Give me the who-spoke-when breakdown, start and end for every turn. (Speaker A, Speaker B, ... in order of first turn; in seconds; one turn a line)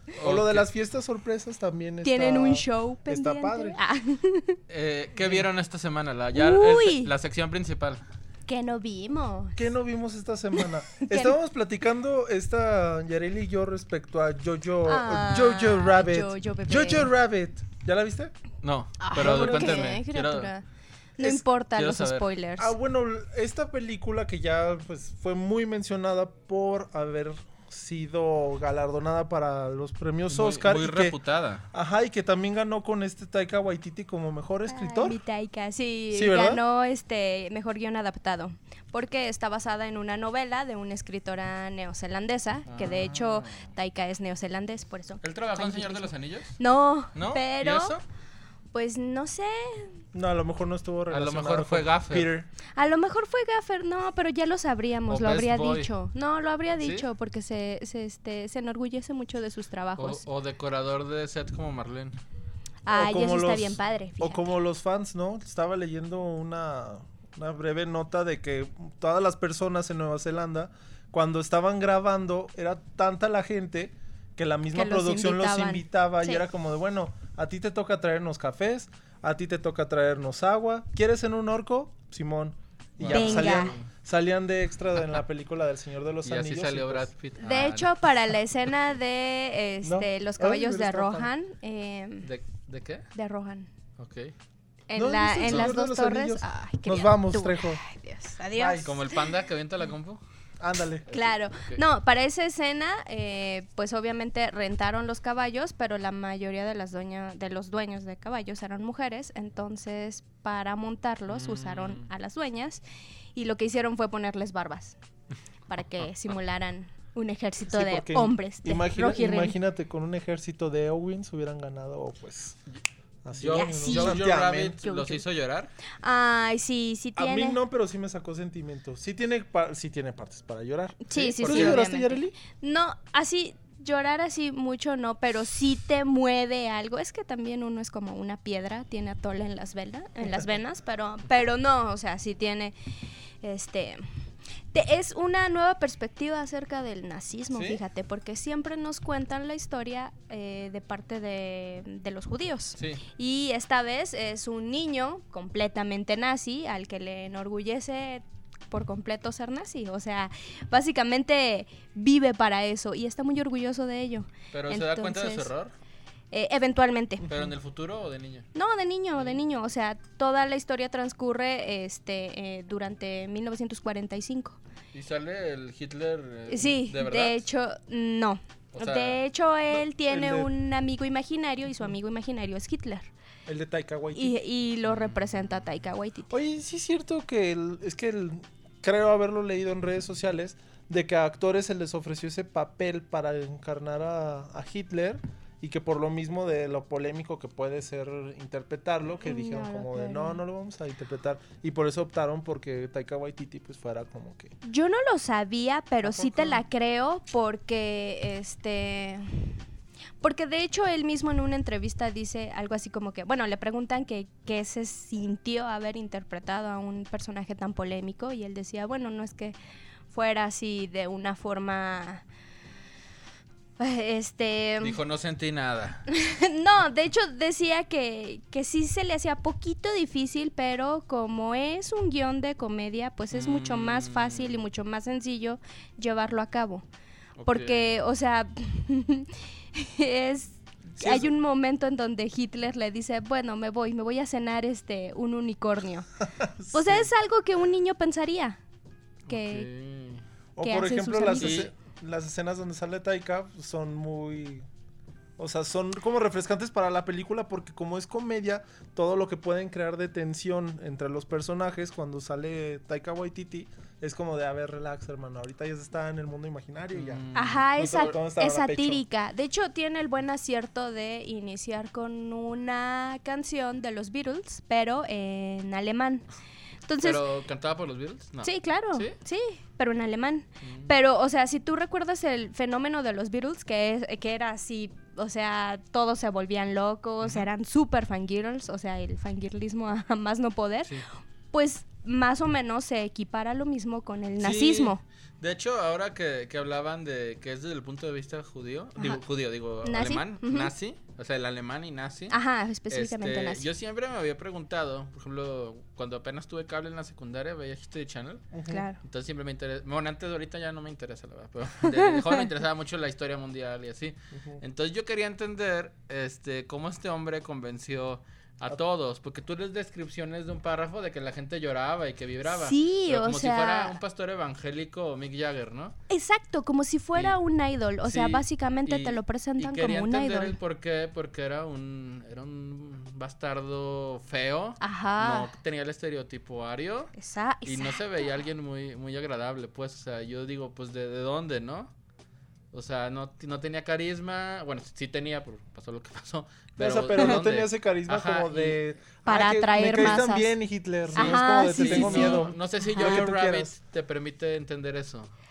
Speaker A: 0.2-0.7
Speaker B: 0.2-3.8
Speaker C: 2.0-4.6
Speaker A: 4.7-8.0
Speaker B: 5.2-5.5
Speaker C: 6.3-7.1
Speaker C: 8.5-9.6
Speaker B: 9.6-18.3
Speaker C: 10.6-11.3
Speaker C: 14.9-17.1
Speaker A: 18.6-20.5
Speaker C: 19.0-20.6
Speaker B: 19.1-20.0
Speaker C: 21.2-22.7
Speaker A: 21.7-22.3
Speaker B: 22.6-31.2
Speaker A: 30.3-31.6
Speaker B: 31.7-35.2
Speaker C: 34.7-48.0
Speaker B: 36.1-36.6
Speaker A: 42.7-43.6
Speaker A: 45.2-46.6
Speaker A: 47.1-48.0
Speaker C: 48.7-50.0
Speaker B: 50.1-52.5
Speaker A: 51.1-52.3
Speaker C: 52.8-60.2
Speaker A: 55.1-55.9
Speaker A: 56.8-57.0
Speaker A: 60.0-62.1
Speaker C: 62.9-64.4
Speaker B: 62.9-87.1
Speaker C: 74.7-76.4
Speaker A: 83.0-83.9
Speaker C: 83.1-83.8
Speaker A: 86.2-88.3
Speaker C: 87.4-92.3
Speaker B: 89.8-91.3
Speaker A: 92.2-93.1
Speaker C: 93.1-93.7
Speaker A: 94.0-94.3
Speaker C: 94.9-99.3
Speaker B: 95.0-97.8
Speaker A: 95.5-95.7
Speaker B: 98.5-99.0
Speaker A: 98.8-100.2
Speaker B: 100.6-101.1
Speaker A: 101.1-101.8
Speaker C: 101.1-112.8
Speaker A: 111.3-112.1
Speaker C: 113.3-115.0
Speaker C: 115.7-119.6
Speaker B: 117.7-122.6
Speaker B: 123.2-124.8
Speaker A: 123.4-125.7
Speaker C: 123.5-124.2
Speaker C: 124.8-125.2
Speaker C: 126.0-127.6
Speaker B: 127.2-132.4
Speaker C: 131.1-142.8
Speaker A: 131.4-131.8
Speaker C: 143.4-165.5
Speaker A: 147.5-147.8
Speaker A: 152.8-153.0
Speaker A: 164.5-165.7
Speaker C: 166.3-167.3
Speaker A: 167.3-168.5
Speaker C: 168.5-174.6
Speaker A: 174.9-177.4
Speaker C: 176.5-183.1
Speaker A: 178.7-179.2
Speaker B: 179.7-180.5
Speaker B: 183.5-184.3
Speaker C: 184.2-186.3
Speaker A: 184.9-185.2
Speaker B: 186.3-204.5
Speaker C: 199.2-200.4
Speaker C: 204.6-209.6
Speaker B: 206.0-206.6
Speaker C: 210.2-219.6
Speaker C: 220.1-222.2
Speaker C: 223.8-225.0
Speaker A: 224.8-226.1
Speaker C: 226.1-236.8
Speaker A: 233.3-234.6
Speaker A: 237.4-238.0
Speaker C: 237.5-246.1
Speaker B: 241.0-241.3
Speaker B: 246.2-247.1
Speaker C: 246.7-248.6
Speaker A: 249.3-250.2
Speaker C: 249.3-249.7
Speaker B: 250.6-254.7
Speaker C: 250.6-251.7
Speaker A: 251.4-251.7
Speaker B: 255.4-267.2
Speaker A: 266.9-268.2
Speaker C: 267.3-276.2
Speaker B: 267.8-269.0
Speaker C: 276.9-277.2
Speaker A: 277.0-279.2
Speaker C: 278.4-291.0
Speaker A: 280.6-280.9
Speaker A: 287.2-287.5
Speaker C: 291.5-295.0
Speaker A: 294.4-302.4
Speaker C: 299.8-300.7
Speaker C: 302.3-303.7
Speaker A: 302.9-308.5
Speaker B: 308.5-308.8
Speaker C: 308.7-309.0
Speaker A: 309.0-326.0
Speaker B: 314.3-314.6
Speaker C: 322.5-324.0
Speaker C: 326.1-330.6
Speaker A: 328.0-337.1
Speaker C: 334.8-335.5
Speaker C: 337.1-338.0
Speaker A: 337.6-341.9
Speaker A: 342.7-348.9
Speaker B: 346.8-353.7
Speaker C: 349.2-350.5
Speaker C: 351.1-353.2
Speaker A: 351.1-355.3